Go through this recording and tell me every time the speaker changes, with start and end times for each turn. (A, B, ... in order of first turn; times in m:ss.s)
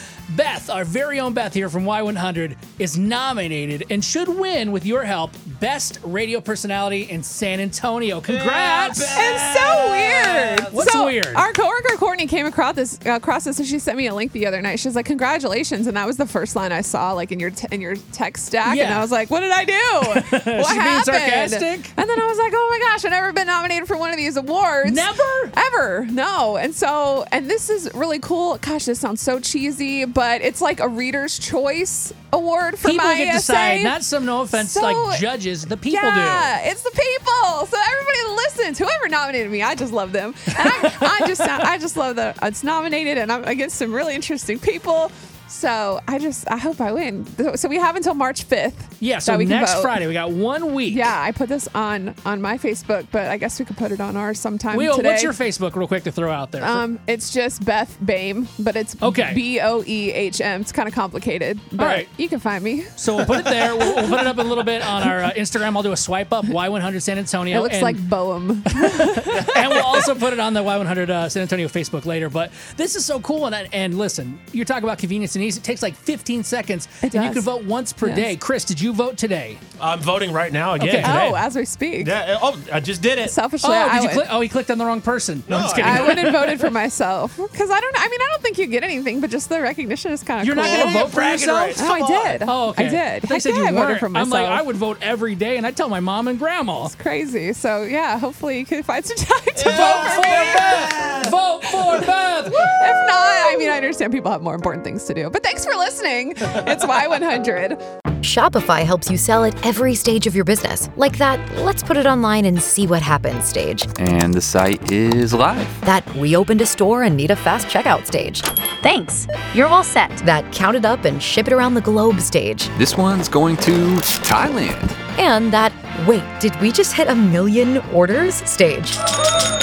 0:00.3-0:11.4 A
0:08.3-0:09.2 B
0:09.1-0:34.0 C
0:18.6-0:19.1 A
0:20.0-0:21.9 A
0:24.8-0:25.5 A
0:32.8-0:36.5 A
0:34.5-0:35.2 C
0:35.9-0:50.0 C
0:40.6-0:41.3 A
0:49.0-0:51.1 A
0:50.9-0:55.3 C
0:54.7-0:56.8 A
0:56.6-1:02.9 C
0:59.0-0:59.4 A
1:01.8-1:02.1 A
1:03.0-1:08.0 A
1:03.8-1:04.2 C
1:07.5-1:10.0 C
1:08.7-1:19.6 A
1:17.0-1:17.5 C
1:18.0-1:18.3 C
1:19.8-1:21.4 B
1:20.8-1:21.4 A
1:21.0-1:22.1 C
1:22.0-1:23.4 B
1:23.2-1:24.3 C
1:23.6-1:26.6 A
1:25.5-1:26.3 B
1:25.8-1:31.0 C
1:30.4-1:31.9 A
1:30.6-1:32.4 B
1:31.7-1:34.6 C
1:32.4-1:36.9 A
1:36.8-1:40.9 C
1:39.6-1:42.7 A
1:39.7-1:41.2 B
1:42.5-1:47.8 C
1:48.2-1:53.9 D
1:54.0-1:55.8 E
1:55.8-2:02.7 D
2:02.8-2:04.9 E
2:05.2-2:09.0 D